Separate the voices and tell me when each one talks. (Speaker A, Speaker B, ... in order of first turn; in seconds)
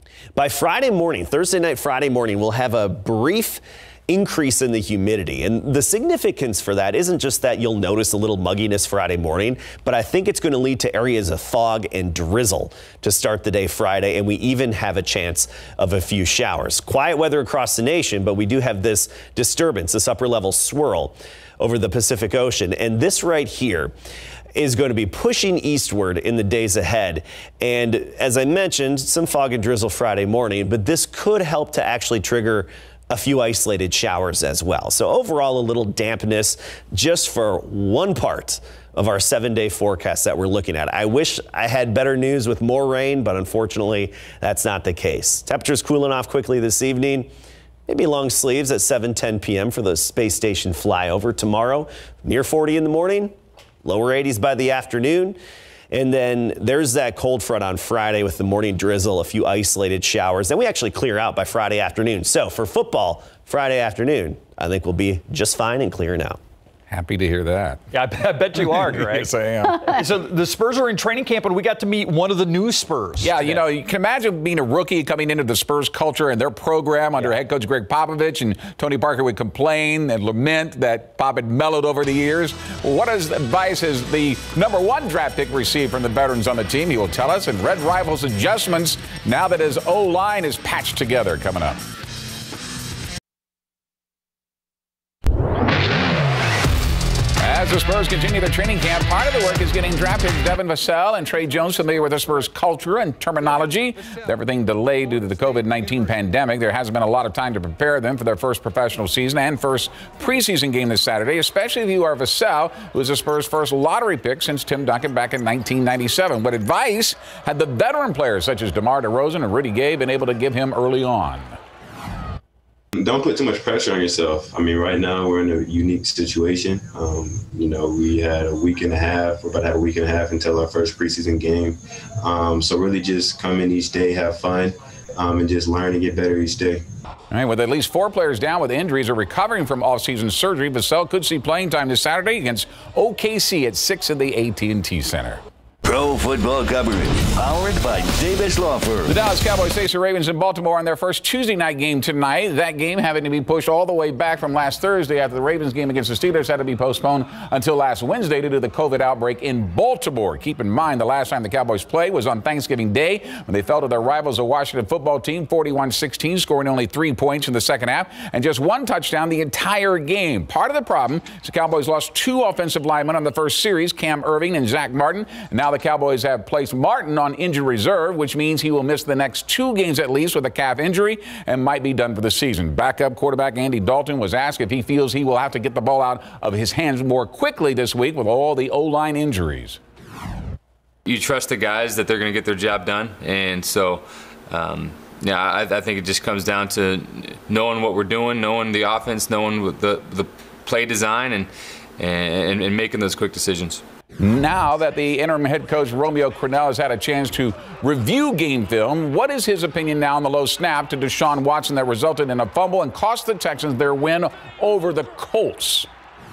Speaker A: 0.3-23.9, 24.5-47.3, 47.9-55.4, 55.9-66.4
Speaker B: 66.9-67.8, 68.6-69.8, 73.2-91.8, 97.4-121.5, 137.3-145.4, 149.1-189.8, 204.2-215.9
Speaker C: 67.9-73.6
Speaker D: 122.9-136.8
Speaker E: 145.8-149.2
Speaker F: 191.0-203.8